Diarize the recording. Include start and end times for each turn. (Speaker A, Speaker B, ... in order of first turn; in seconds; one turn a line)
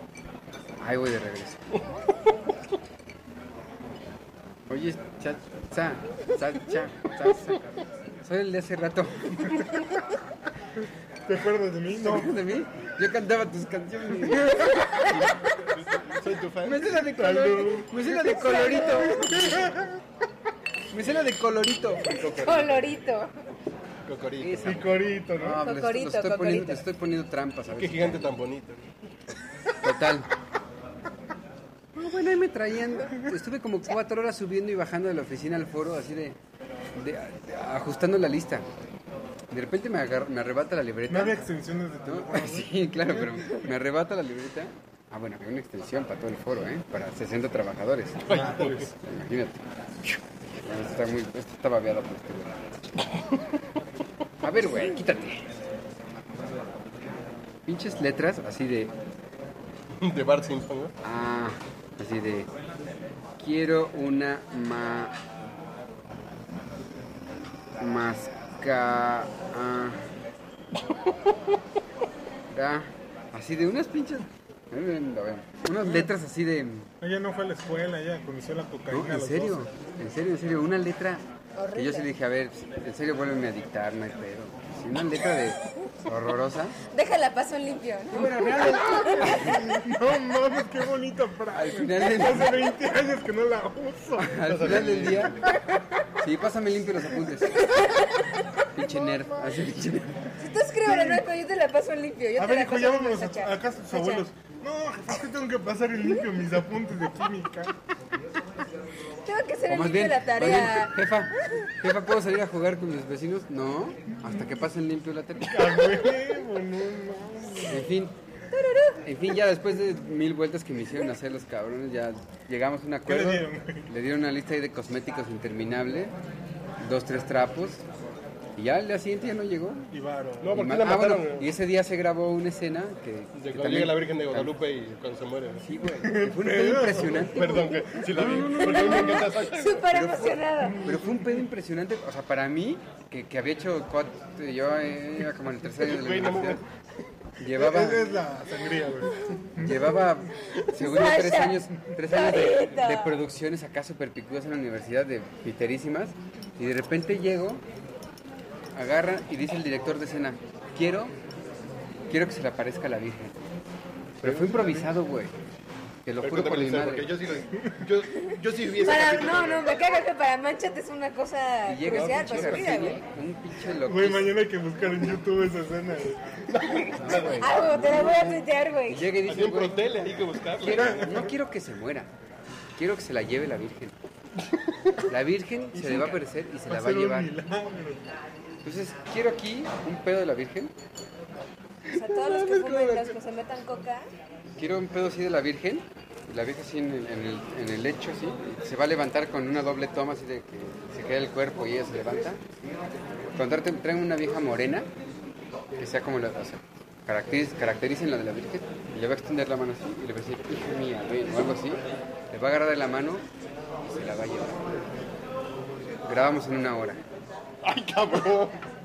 Speaker A: 0.8-1.7
Speaker A: 4.7-7.6
Speaker A: 8.2-9.8
Speaker B: 11.3-12.4
Speaker A: 12.0-15.4
Speaker C: 15.7-17.4
Speaker A: 16.6-19.8
Speaker B: 16.9-18.0
Speaker D: 18.2-19.3
Speaker B: 19.5-19.9
Speaker A: 20.9-22.9
Speaker D: 22.0-23.3
Speaker C: 22.1-22.6
Speaker C: 24.1-24.9
Speaker A: 24.4-28.4
Speaker B: 24.6-25.6
Speaker D: 25.6-26.8
Speaker C: 27.7-28.9
Speaker A: 29.8-30.3
Speaker A: 32.0-36.4
Speaker A: 36.9-38.6
Speaker A: 39.5-41.4
Speaker B: 41.1-43.4
Speaker A: 42.0-52.5
Speaker C: 48.2-48.9
Speaker B: 48.3-48.9
Speaker C: 53.0-53.4
Speaker A: 54.4-55.5
Speaker A: 57.7-58.9
Speaker C: 60.0-60.9
Speaker A: 61.0-62.5
Speaker A: 63.4-65.2
Speaker A: 67.8-70.0
Speaker A: 72.5-76.9
Speaker B: 75.8-76.1
Speaker B: 77.0-79.7
Speaker A: 78.9-81.2
Speaker D: 81.6-82.1
Speaker A: 81.8-86.8
Speaker D: 86.9-89.6
Speaker A: 88.1-89.7
Speaker B: 89.5-94.4
Speaker A: 91.5-92.6
Speaker A: 94.2-95.5
Speaker C: 94.4-95.5
Speaker A: 96.2-98.0
Speaker D: 97.5-98.6
Speaker A: 98.7-100.4
Speaker B: 98.8-99.6
Speaker D: 100.4-104.2
Speaker B: 100.9-101.2
Speaker B: 102.4-107.7
Speaker D: 109.2-110.9
Speaker A: 109.7-116.0
Speaker B: 115.5-117.9
Speaker A: 117.7-118.2
Speaker D: 118.5-119.0
Speaker A: 119.0-126.1
Speaker B: 123.1-123.9
Speaker A: 126.8-127.8
Speaker A: 128.6-129.9
Speaker B: 129.9-130.6
Speaker C: 130.4-131.5
Speaker A: 130.5-134.5
Speaker C: 133.3-135.9
Speaker A: 135.7-146.6
Speaker B: 136.0-137.2
Speaker C: 136.9-139.9
Speaker D: 138.6-140.9
Speaker B: 140.7-141.4
Speaker C: 145.8-146.6
Speaker A: 147.4-148.1
Speaker B: 147.5-149.8
Speaker A: 149.6-157.6
Speaker D: 150.7-153.2
Speaker A: 158.7-161.1
Speaker A: 162.1-163.4
Speaker A: 164.2-165.3
Speaker B: 164.2-164.9
Speaker A: 166.0-167.1
Speaker C: 166.2-169.7
Speaker D: 168.8-173.0
Speaker A: 171.7-174.4
Speaker C: 171.8-173.0
Speaker B: 173.8-176.4
Speaker C: 176.4-177.6
Speaker A: 176.9-182.1
Speaker D: 177.4-179.0
Speaker C: 179.2-181.3
Speaker B: 180.8-181.2
Speaker A: 182.8-183.9
Speaker C: 184.4-185.1
Speaker A: 185.1-187.3
Speaker B: 185.7-188.0
Speaker A: 188.6-190.7
Speaker D: 191.9-194.1
Speaker A: 192.2-193.0
Speaker C: 192.4-193.0
Speaker A: 194.6-202.4
Speaker A: 203.3-204.9
Speaker A: 205.8-213.2
Speaker A: 213.8-214.6
Speaker A: 216.1-217.0
Speaker C: 217.6-218.6